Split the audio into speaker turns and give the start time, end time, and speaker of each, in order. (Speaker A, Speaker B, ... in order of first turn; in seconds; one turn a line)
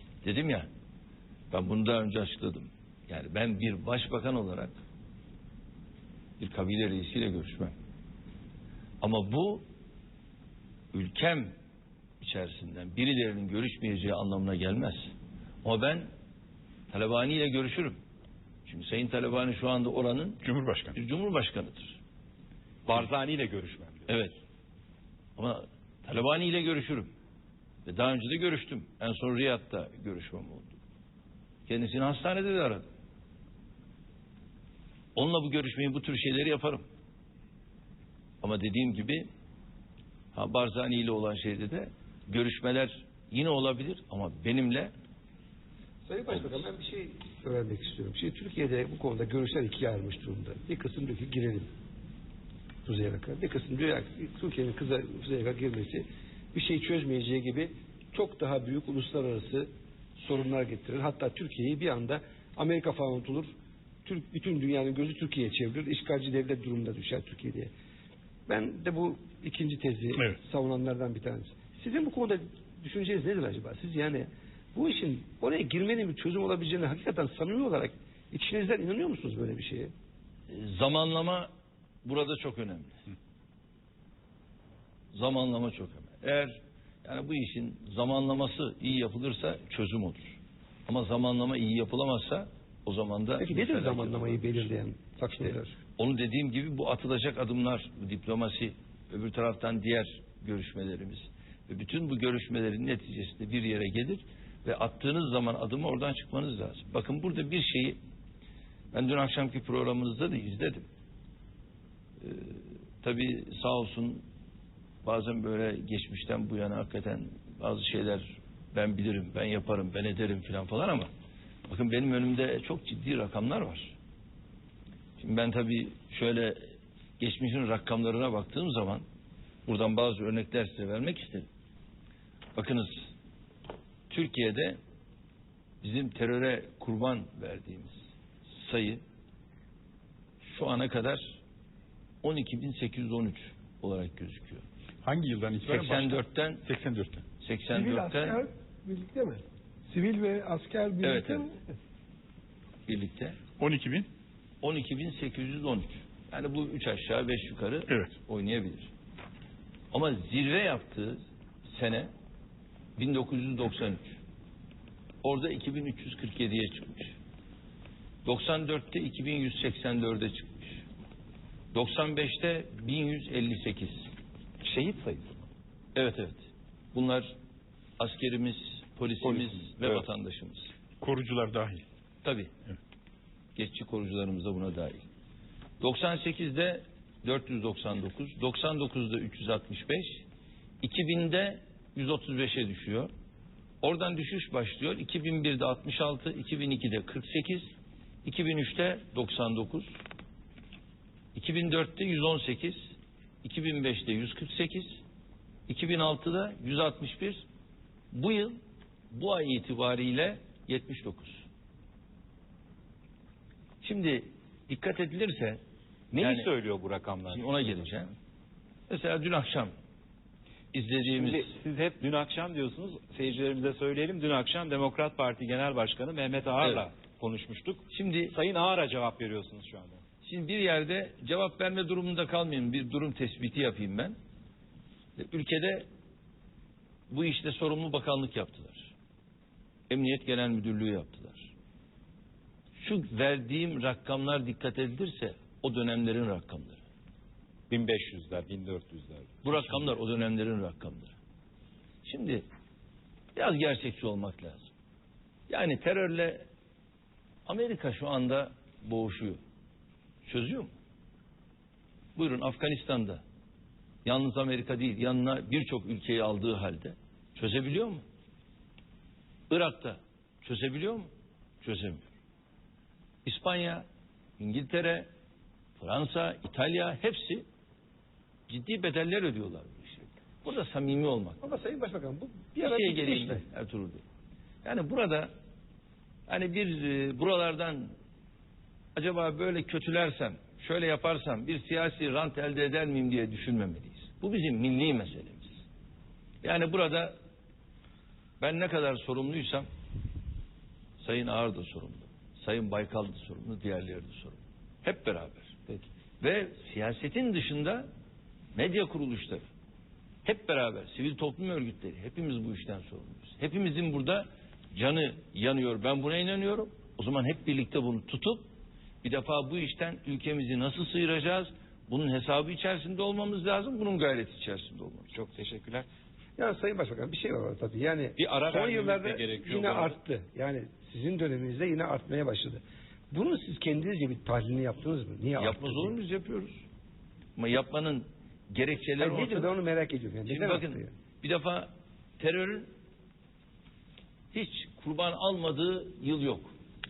Speaker A: 0.2-0.7
Speaker A: 1.5-4.7
Speaker A: 6.4-7.7
Speaker A: 9.0-9.6
Speaker A: 10.9-11.6
Speaker A: 12.2-15.1
Speaker A: 15.6-16.1
Speaker A: 16.9-18.0
Speaker A: 18.7-20.4
Speaker B: 20.4-21.0
Speaker A: 20.9-22.0
Speaker C: 22.9-24.2
Speaker A: 24.1-24.4
Speaker A: 25.4-27.1
Speaker A: 27.9-30.8
Speaker A: 31.7-32.9
Speaker A: 35.2-36.8
Speaker A: 38.4-39.3
Speaker A: 40.3-44.9
Speaker D: 46.0-51.7
Speaker D: 52.9-63.5
Speaker D: 64.0-67.7
Speaker D: 68.5-79.9
Speaker A: 80.5-81.5
Speaker A: 82.0-83.0
Speaker A: 85.1-94.7
Speaker D: 93.4-95.8
Speaker A: 95.5-108.0
Speaker A: 108.9-110.8
Speaker A: 112.2-114.2
Speaker A: 115.0-121.1
Speaker A: 121.7-123.9
Speaker A: 125.2-126.6
Speaker A: 127.2-129.0
Speaker A: 129.7-131.5
Speaker A: 132.6-133.1
Speaker A: 134.1-134.8
Speaker A: 135.8-139.0
Speaker A: 140.4-141.4
Speaker A: 142.2-144.6
Speaker B: 145.0-147.2
Speaker A: 145.7-146.6
Speaker A: 147.4-148.4
Speaker E: 147.7-151.5
Speaker A: 151.0-151.5
Speaker A: 152.9-153.4
Speaker B: 153.6-154.1
Speaker A: 154.6-158.9
Speaker B: 157.9-158.1
Speaker A: 159.9-162.1
Speaker A: 163.0-164.2
Speaker A: 165.2-167.2
Speaker A: 168.2-170.8
Speaker A: 171.7-174.1
Speaker C: 174.6-175.4
Speaker A: 175.9-177.3
Speaker A: 178.0-180.7
Speaker C: 179.2-180.0
Speaker B: 181.0-181.8
Speaker A: 182.2-182.5
Speaker A: 183.6-185.1
Speaker A: 185.8-190.2
Speaker A: 190.8-193.1
Speaker A: 193.8-197.7
Speaker A: 198.2-199.9
Speaker A: 201.3-202.9
Speaker A: 203.4-205.0
Speaker A: 205.7-207.4
Speaker A: 208.1-208.6
Speaker A: 209.1-211.5
Speaker A: 213.8-215.6
Speaker C: 216.1-217.8
Speaker A: 216.2-216.5
Speaker A: 217.3-218.1
Speaker A: 218.9-219.7
Speaker A: 220.7-221.5
Speaker C: 221.1-230.0
Speaker A: 227.9-228.3
Speaker A: 230.2-234.2
Speaker A: 235.2-235.9
Speaker A: 237.1-238.9
Speaker A: 239.9-241.5
Speaker A: 242.8-246.8
Speaker C: 247.7-250.0
Speaker A: 249.4-251.1
Speaker A: 252.1-252.4
Speaker A: 253.3-254.7
Speaker A: 255.5-256.5
Speaker A: 257.5-259.4
Speaker A: 260.3-260.7
Speaker A: 262.2-263.2
Speaker A: 264.1-268.0
Speaker A: 269.5-271.1
Speaker A: 271.6-272.1
Speaker A: 273.2-273.8
Speaker A: 274.4-275.1
Speaker A: 275.8-277.4
Speaker A: 278.5-281.4
Speaker D: 281.4-283.4
Speaker A: 282.6-284.0
Speaker A: 284.6-285.3
Speaker A: 286.3-287.9
Speaker A: 288.9-295.6
Speaker A: 296.4-297.1
Speaker A: 298.4-299.7
Speaker A: 301.0-307.9
Speaker A: 308.6-309.4
Speaker A: 310.2-318.5
Speaker A: 319.0-325.1
Speaker C: 325.1-325.9
Speaker D: 326.4-336.0
Speaker C: 328.2-330.0
Speaker A: 335.4-336.6
Speaker A: 337.4-339.6
Speaker D: 339.0-340.9
Speaker A: 340.3-342.7
Speaker A: 344.3-346.5